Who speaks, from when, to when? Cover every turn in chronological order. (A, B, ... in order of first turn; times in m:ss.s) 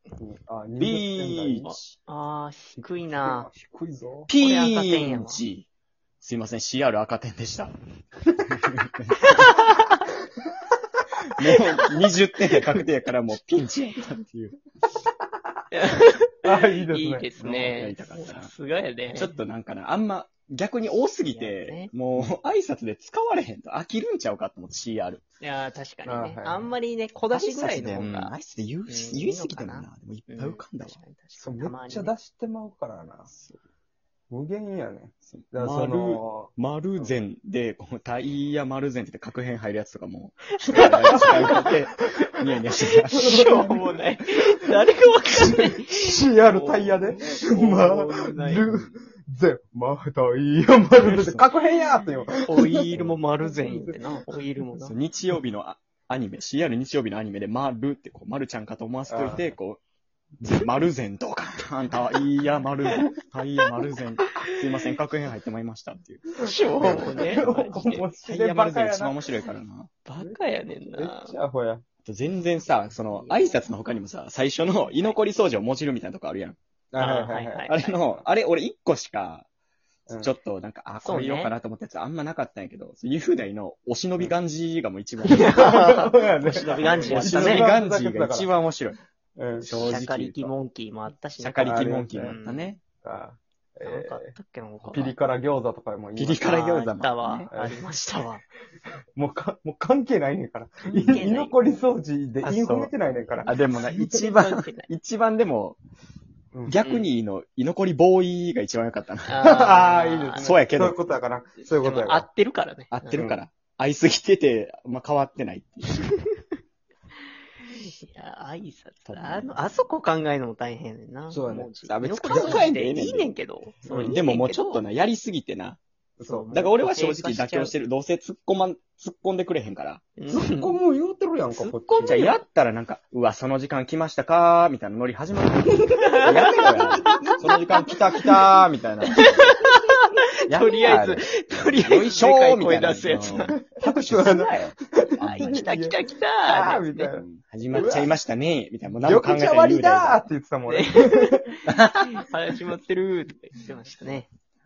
0:00.2-0:01.7 A
0:00.8-0:01.8 B
0:01.6-0:03.5 C
0:02.8-0:04.3 A
0:04.3-0:05.7 B
0:04.4-0:05.4 C
0:06.2-0:07.7 B
0:08.5-0:09.4 B
0:09.2-0:09.8 C
0:11.3-0:14.6 B
0:15.7-0:19.3 C
0:16.4-0:17.7 A
0:17.4-0:18.5 B
0:19.1-0:25.2 B
0:21.3-0:21.9 C
0:25.4-0:28.3 C
0:26.0-0:26.8 A
0:27.3-0:31.0 B
0:28.9-0:32.1 C
0:31.4-0:33.3 A
0:33.3-0:33.6 B
0:34.3-0:37.2 A
0:35.3-0:43.7 B
0:40.6-0:41.7 C
0:40.7-0:41.7 A
0:43.0-0:48.7 C
0:43.2-0:43.8 A
0:45.5-0:53.1 A
0:51.0-0:51.5 B
0:52.4-0:55.0 C
0:53.6-0:53.9 A
0:54.8-0:59.8 B
0:59.1-0:59.5 A
1:00.4-1:09.9 B
1:04.2-1:04.6 C
1:06.4-1:08.1 C
1:06.7-1:09.2 A
1:10.0-1:11.4 C
1:10.9-1:11.8 A
1:12.0-1:16.6 B
1:13.1-1:14.0 C
1:14.6-1:15.2 C
1:16.9-1:17.7 A
1:17.0-1:18.0 C
1:17.7-1:19.5 B
1:20.2-1:25.8 B
1:21.0-1:21.5 C
1:25.3-1:27.7 C
1:25.3-1:28.5 A
1:26.7-1:29.0 B
1:29.4-1:29.8 A
1:29.6-1:30.5 B
1:29.8-1:32.8 C
1:31.4-1:32.8 B
1:31.6-1:32.3 A
1:32.9-1:36.9 A
1:33.8-1:35.1 C
1:36.2-1:37.5 B
1:36.4-1:38.4 C
1:37.5-1:37.9 A
1:39.2-1:43.6 A
1:40.9-1:41.6 C
1:42.4-1:42.9 B
1:43.4-1:45.8 B
1:43.8-1:44.9 C
1:46.7-1:51.0 B
1:46.8-1:47.1 C
1:49.3-1:50.5 C
1:49.4-1:52.3 A
1:51.6-1:53.2 C
1:52.9-1:56.0 B
1:53.1-1:53.4 A
1:57.7-2:04.8 C
1:59.1-1:59.5 B
2:01.3-2:01.7 A
2:01.8-2:03.3 B
2:02.3-2:02.7 A
2:03.8-2:04.2 A
2:04.1-2:05.8 B
2:06.2-2:06.6 A
2:06.2-2:07.7 C
2:06.5-2:10.2 B
2:10.2-2:10.7 C
2:10.3-2:12.3 A
2:11.5-2:12.4 C
2:12.0-2:19.5 B
2:16.1-2:18.2 C
2:19.2-2:23.6 C
2:20.5-2:25.6 B
2:23.6-2:28.1 A
2:25.2-2:27.1 C
2:27.1-2:30.2 B
2:29.0-2:31.5 A
2:30.7-2:34.3 C
2:31.7-2:32.2 B